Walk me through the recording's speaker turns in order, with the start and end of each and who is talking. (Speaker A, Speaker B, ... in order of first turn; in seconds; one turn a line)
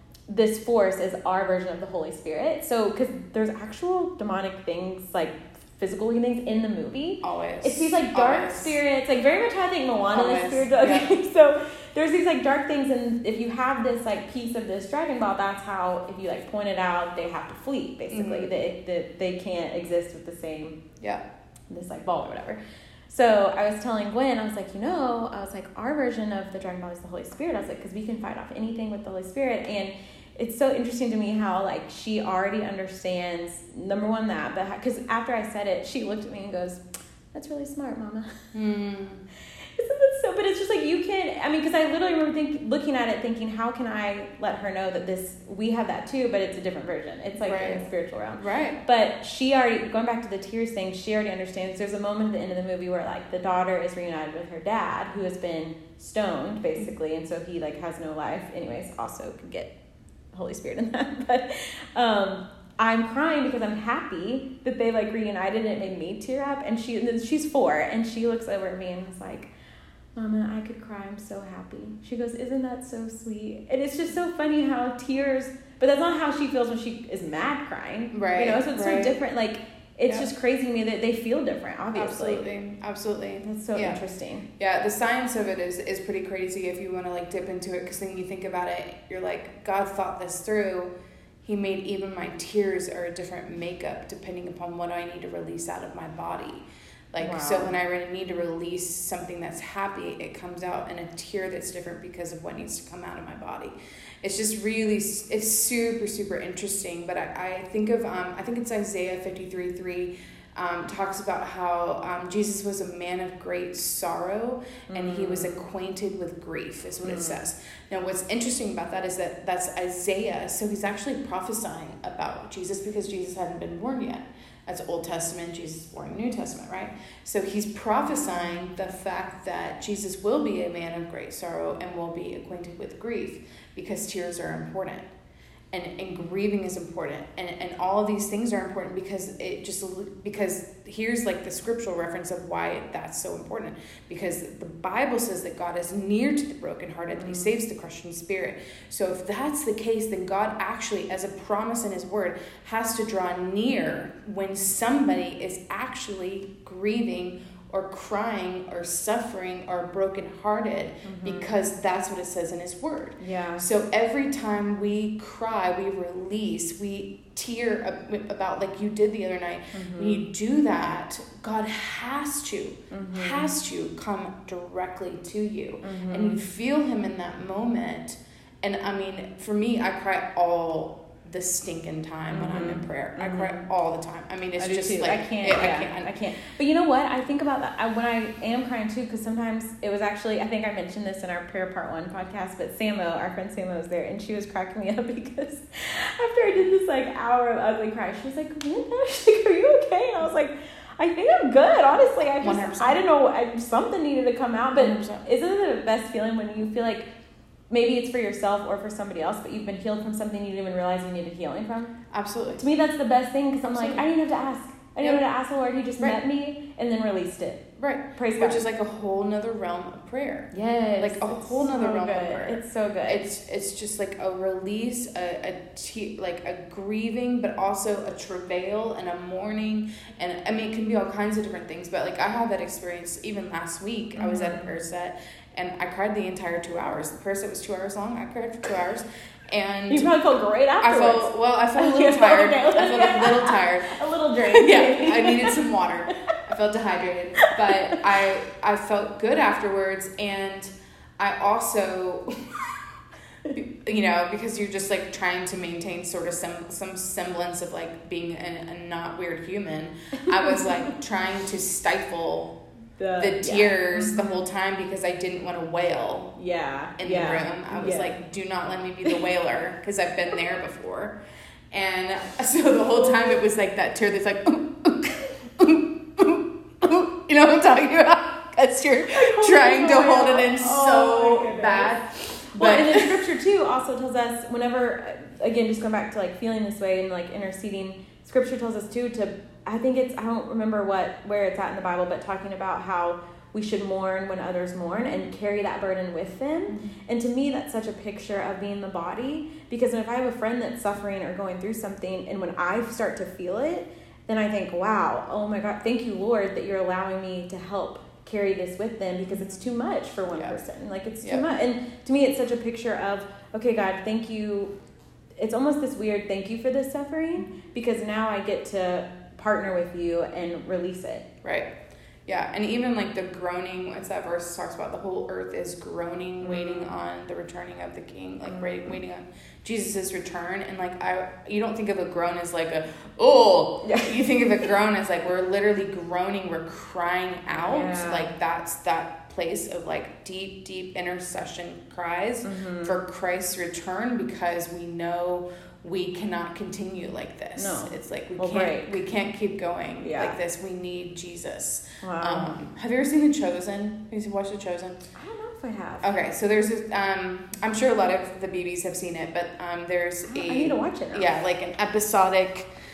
Speaker A: 0.3-20.8
Speaker B: 7.2-8.8
Speaker B: 10.1-11.1
Speaker B: 18.1-18.5
Speaker A: 21.7-38.4
Speaker B: 38.5-39.2
Speaker A: 39.5-59.7
Speaker B: 47.4-47.9
Speaker B: 48.4-48.8
Speaker A: 60.3-69.5
Speaker A: 70.1-82.4
Speaker B: 78.1-79.2
Speaker B: 81.9-84.0
Speaker A: 83.4-84.4
Speaker B: 84.6-90.9
Speaker B: 91.4-135.1
Speaker A: 97.2-97.7
Speaker A: 114.9-115.6
Speaker A: 117.0-117.4
Speaker B: 135.7-186.2
Speaker A: 147.2-147.5
Speaker A: 161.0-161.5
Speaker A: 163.2-163.6
Speaker A: 169.7-170.2
Speaker A: 172.9-173.5
Speaker A: 175.8-176.4
Speaker A: 182.3-183.5
Speaker A: 184.6-207.1
Speaker B: 202.4-203.0
Speaker B: 204.7-205.2
Speaker A: 207.7-212.0
Speaker B: 212.1-212.6
Speaker A: 212.6-218.6
Speaker B: 213.7-214.1
Speaker B: 217.8-240.2
Speaker A: 220.5-223.2
Speaker A: 234.2-234.7
Speaker A: 239.9-245.6
Speaker B: 240.8-252.7
Speaker A: 247.4-248.0
Speaker B: 253.5-262.6
Speaker A: 260.3-260.9
Speaker A: 263.0-264.3
Speaker B: 263.2-266.3
Speaker A: 266.4-268.1
Speaker B: 267.0-271.2
Speaker B: 271.7-283.2
Speaker A: 272.9-273.4
Speaker A: 279.1-281.9
Speaker A: 282.5-314.7
Speaker B: 296.7-296.9
Speaker A: 315.4-321.3
Speaker B: 321.4-321.7
Speaker B: 322.3-355.0
Speaker A: 326.4-326.9
Speaker A: 328.4-329.0
Speaker A: 333.8-334.1
Speaker A: 337.6-338.3
Speaker A: 342.4-342.9
Speaker A: 347.6-349.0
Speaker A: 350.0-350.4
Speaker A: 352.0-352.6
Speaker A: 355.1-356.1
Speaker B: 356.0-362.7
Speaker A: 360.2-361.3